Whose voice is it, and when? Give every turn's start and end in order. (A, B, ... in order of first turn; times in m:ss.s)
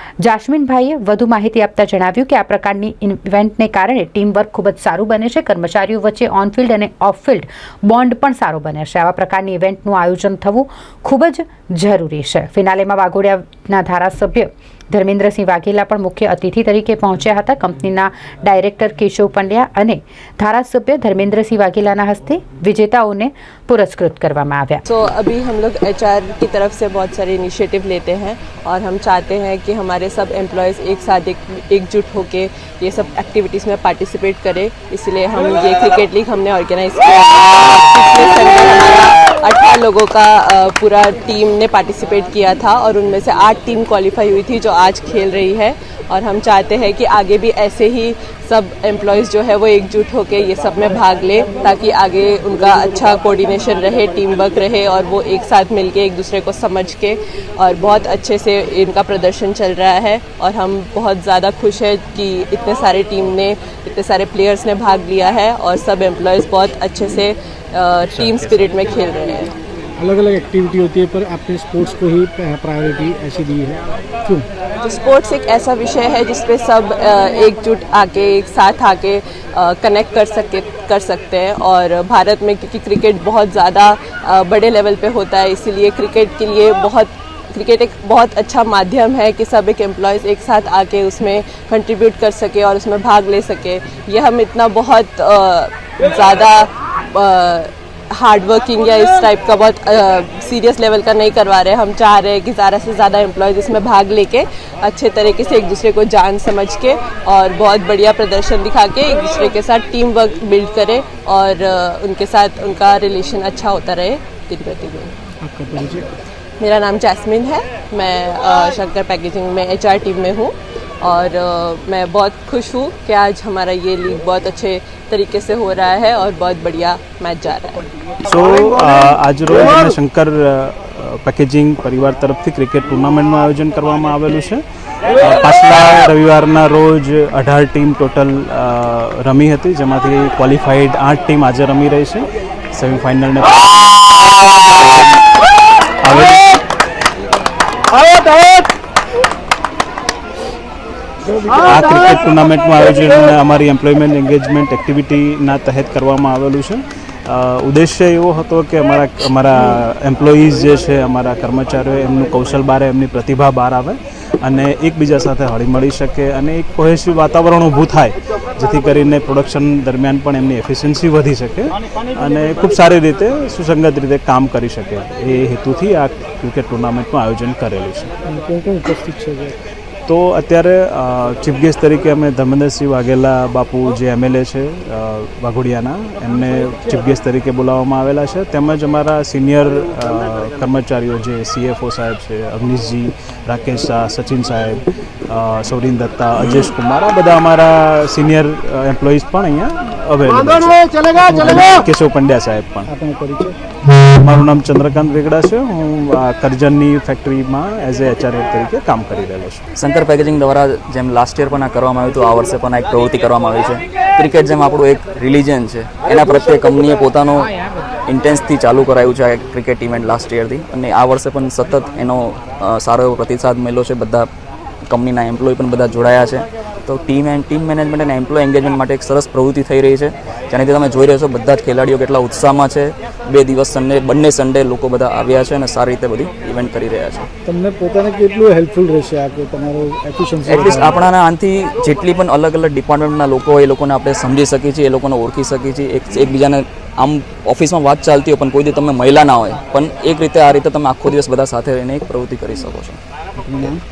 0:00.2-0:24.8 A
0:24.9-1:09.5 B
1:10.0-1:14.5 C
1:14.8-1:55.1 B
1:55.4-1:56.1 C
1:56.6-2:07.9 B
2:08.2-2:14.6 D
2:15.2-2:24.5 D
2:26.0-2:26.6 D
2:31.3-2:31.8 C
2:31.5-2:58.1 D
2:58.3-2:59.6 C
3:00.1-3:22.9 D
3:22.9-3:23.6 C
3:24.0-3:29.7 D
3:29.8-3:37.5 E
3:38.1-3:44.3 E
3:44.9-3:57.3 E
3:57.5-4:01.1 C
4:00.5-4:13.0 E
4:13.4-4:13.8 C